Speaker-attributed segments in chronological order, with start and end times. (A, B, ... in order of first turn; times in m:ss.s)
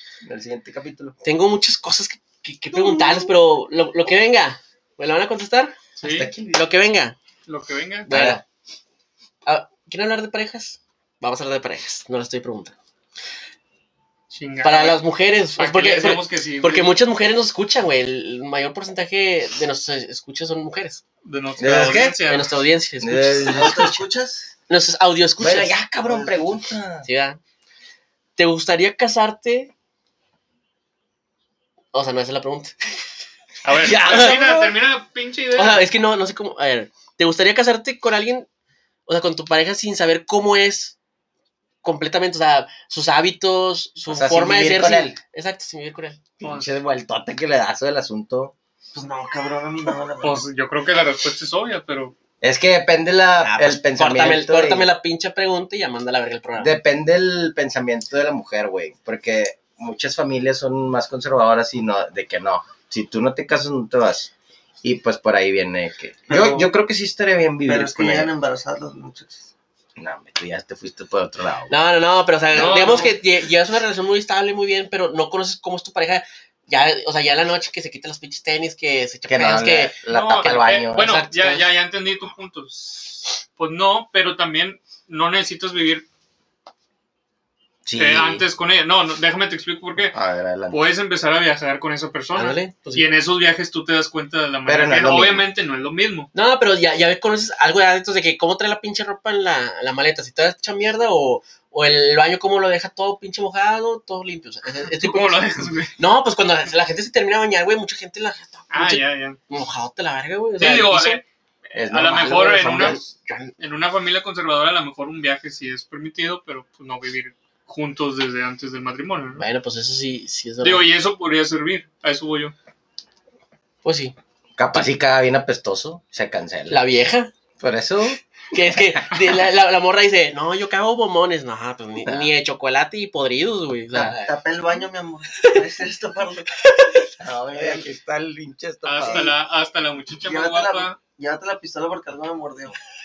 0:00.2-0:01.1 A
0:01.2-0:05.8 B
0:02.7-0:03.3 A
0:06.0-0:06.3 C
0:06.0-0:06.6 A
0:06.5-0:07.1 B
0:07.4-0:08.1 C
0:08.1-0:08.4 B
0:08.1-0:08.4 A
0:09.4-0:12.7 B
0:14.3-0:15.0 C
0:14.6-0:21.0 B
0:15.6-0:16.9 C
0:21.2-0:22.5 C
0:21.6-0:22.2 A
0:22.2-0:23.9 B
0:23.0-0:24.0 A
0:23.4-0:24.5 D
0:24.7-0:25.8 B
0:25.4-0:27.0 A
0:26.0-0:26.6 D
0:27.0-0:27.4 B
0:28.4-0:29.7 B
0:31.9-0:33.0 B
0:33.6-0:35.8 C
0:33.8-0:34.5 B
0:33.8-0:34.7 A
0:35.5-0:38.5 B
0:39.1-0:41.0 B
0:41.8-0:46.2 B
0:44.1-0:45.2 A
0:46.4-0:48.5 A
0:46.4-0:46.7 C
0:48.9-0:50.4 D
0:50.2-0:52.1 C
0:52.4-0:54.9 A
0:53.4-0:56.8 B
0:56.6-1:04.3 A
1:04.8-1:08.3 A
1:06.3-1:06.7 D
1:07.6-1:09.4 D
1:10.0-1:11.7 A
1:11.7-1:19.9 B
1:12.5-1:13.1 C
1:19.3-1:21.1 A
1:20.1-1:26.0 C
1:20.9-1:21.6 B
1:27.8-1:28.4 A
1:28.0-1:30.2 C
1:30.1-1:30.8 A
1:30.7-1:36.3 C
1:32.3-1:33.1 B
1:34.6-1:35.4 A
1:36.3-1:51.2 B
1:44.8-1:45.9 C
1:48.7-1:49.4 C
1:50.6-1:53.0 C
1:51.7-1:53.0 A
1:52.6-1:53.5 B
1:53.6-1:59.4 C
1:59.4-2:00.9 B
2:00.6-2:02.5 C
2:03.8-2:04.1 B
2:04.6-2:06.8 A
2:06.7-2:07.3 B
2:07.6-2:08.2 A
2:08.5-2:14.2 B
2:08.7-2:09.2 A
2:12.0-2:12.3 A
2:13.9-2:16.6 D
2:14.0-2:14.3 A
2:17.2-2:19.3 A
2:18.8-2:21.0 C
2:19.0-2:19.3 D
2:20.2-2:22.8 D